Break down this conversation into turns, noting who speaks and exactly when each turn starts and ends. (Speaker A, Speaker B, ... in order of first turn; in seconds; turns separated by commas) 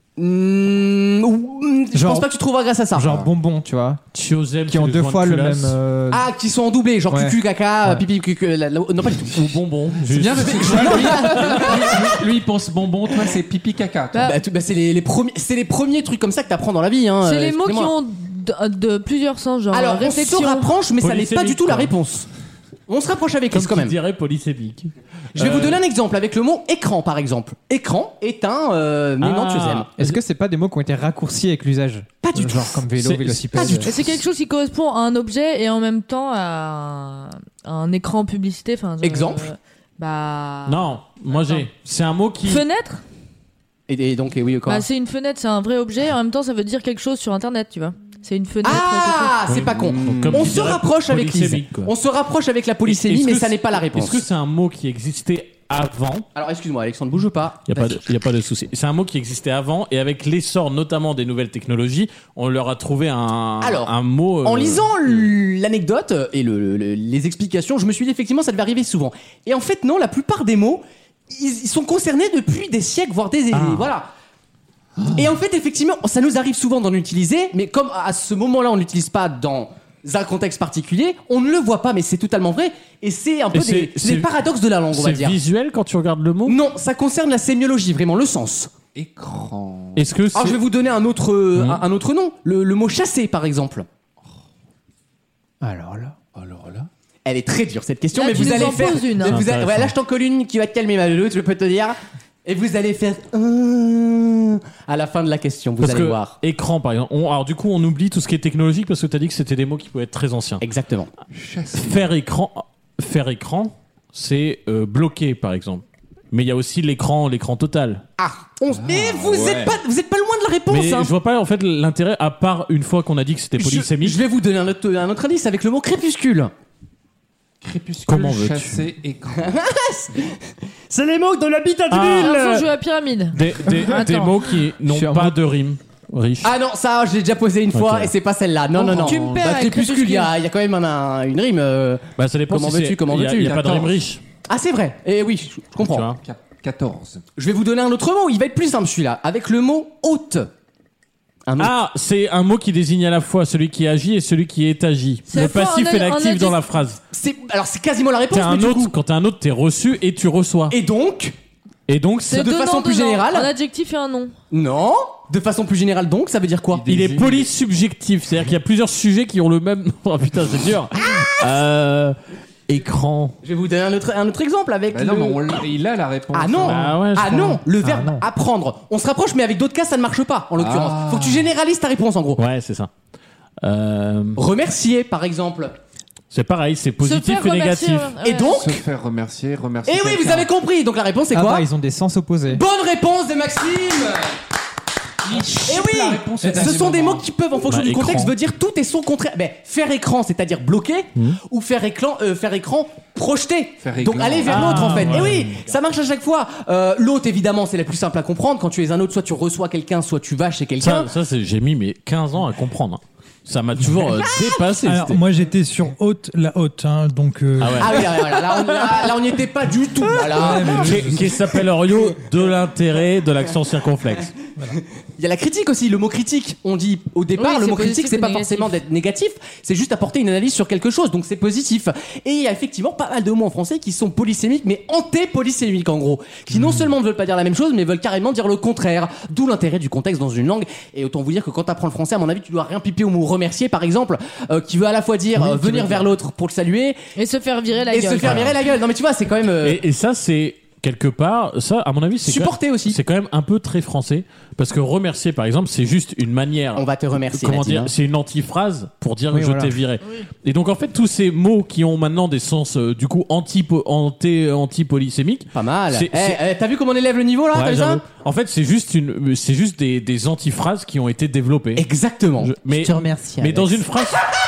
Speaker A: 0.2-3.2, Speaker B: 1.9-2.3, Speaker B: 3.0-4.0, Speaker C: 4.1-5.8, Speaker B: 4.7-6.2, Speaker A: 6.1-9.6, Speaker B: 7.1-8.0, Speaker C: 9.3-13.2, Speaker D: 10.1-12.4, Speaker A: 10.5-12.0, Speaker D: 13.0-14.4, Speaker E: 14.1-14.4, Speaker A: 14.2-17.9, Speaker E: 17.2-20.7, Speaker A: 19.7-22.3, Speaker C: 21.0-21.9, Speaker A: 22.9-24.0, Speaker C: 23.5-25.8, Speaker A: 25.4-29.9, Speaker C: 29.2-30.2, Speaker B: 30.0-33.9, Speaker A: 32.2-32.9, Speaker C: 33.0-33.8, Speaker A: 33.5-33.9, Speaker E: 33.9-41.7, Speaker A: 39.0-39.4, Speaker C: 40.6-42.6, Speaker E: 42.5-43.0, Speaker A: 43.9-44.9, Speaker E: 44.6-49.4, Speaker A: 48.6-54.2, Speaker C: 49.5-51.9, Speaker D: 49.6-50.6, Speaker C: 52.9-56.3, Speaker A: 56.4-58.0, Speaker C: 57.7-65.3, Speaker A: 63.6-63.9, Speaker A: 64.4-74.1, Speaker C: 73.5-73.9, Speaker D: 75.0-75.3, Speaker A: 75.1-85.4, Speaker C: 83.5-84.3, Speaker C: 84.9-86.6, Speaker A: 86.5-88.7, Speaker D: 89.0-90.0, Speaker C: 90.0-90.6, Speaker A: 90.3-93.9, Speaker C: 91.5-91.8, Speaker B: 95.6-96.1, Speaker D: 96.3-96.9, Speaker A: 97.2-106.4, Speaker E: 98.1-99.4, Speaker C: 99.2-99.9, Speaker C: 105.8-110.6, Speaker A: 110.6-111.1, Speaker D: 111.3-112.1, Speaker C: 111.7-118.0, Speaker A: 118.2-121.1, Speaker D: 118.7-119.8, Speaker C: 120.7-124.2, Speaker A: 123.6-126.5, Speaker D: 127.6-129.6, Speaker C: 128.1-128.8, Speaker A: 129.4-130.4, Speaker A: 130.9-132.2, Speaker C: 131.9-132.7, Speaker E: 132.0-134.4, Speaker C: 133.3-136.5, Speaker B: 134.8-135.4, Speaker A: 136.4-143.7, Speaker C: 137.7-138.1, Speaker E: 138.8-140.3, Speaker D: 138.9-139.4, Speaker C: 142.2-144.2, Speaker D: 143.4-144.0, Speaker A: 144.5-146.1, Speaker C: 145.8-146.2, Speaker D: 146.2-147.2, Speaker A: 147.4-150.5, Speaker A: 151.5-151.7, Speaker C: 151.6-157.0, Speaker E: 155.3-156.6, Speaker A: 157.1-158.9, Speaker C: 158.3-160.8, Speaker A: 160.7-161.3, Speaker C: 161.9-162.5, Speaker E: 162.3-164.3, Speaker A: 162.3-163.5, Speaker A: 164.5-166.8, Speaker D: 166.7-167.5, Speaker C: 166.9-172.2, Speaker C: 172.7-173.4, Speaker A: 173.4-175.6, Speaker D: 174.9-176.9, Speaker A: 176.3-182.4, Speaker C: 176.6-177.6, Speaker B: 177.8-178.2, Speaker D: 180.6-181.5, Speaker C: 182.4-182.9, Speaker C: 183.6-184.4, Speaker A: 184.4-185.8, Speaker C: 186.3-188.1, Speaker E: 187.0-188.6, Speaker A: 188.2-188.8, Speaker D: 188.5-190.5, Speaker A: 189.9-191.7, Speaker B: 191.3-192.6, Speaker A: 192.5-194.3, Speaker D: 195.3-197.3, Speaker A: 195.3-211.1, Speaker C: 197.7-198.3, Speaker D: 203.8-205.3, Speaker C: 204.5-205.6, Speaker C: 210.8-215.2, Speaker F: 214.8-218.1, Speaker C: 217.6-218.0, Speaker A: 217.8-221.1, Speaker F: 220.2-221.3, Speaker C: 220.7-224.3, Speaker A: 225.2-247.0, Speaker E: 227.4-228.8, Speaker B: 245.5-246.0, Speaker E: 247.2-248.5, Speaker A: 247.9-249.8, Speaker C: 248.2-248.5, Speaker C: 249.6-266.4, Speaker A: 252.2-253.0, Speaker A: 256.8-257.9, Speaker B: 259.3-259.8, Speaker A: 265.5-268.0, Speaker C: 267.5-271.9, Speaker A: 271.8-273.7, Speaker C: 272.4-274.2, Speaker B: 272.9-273.5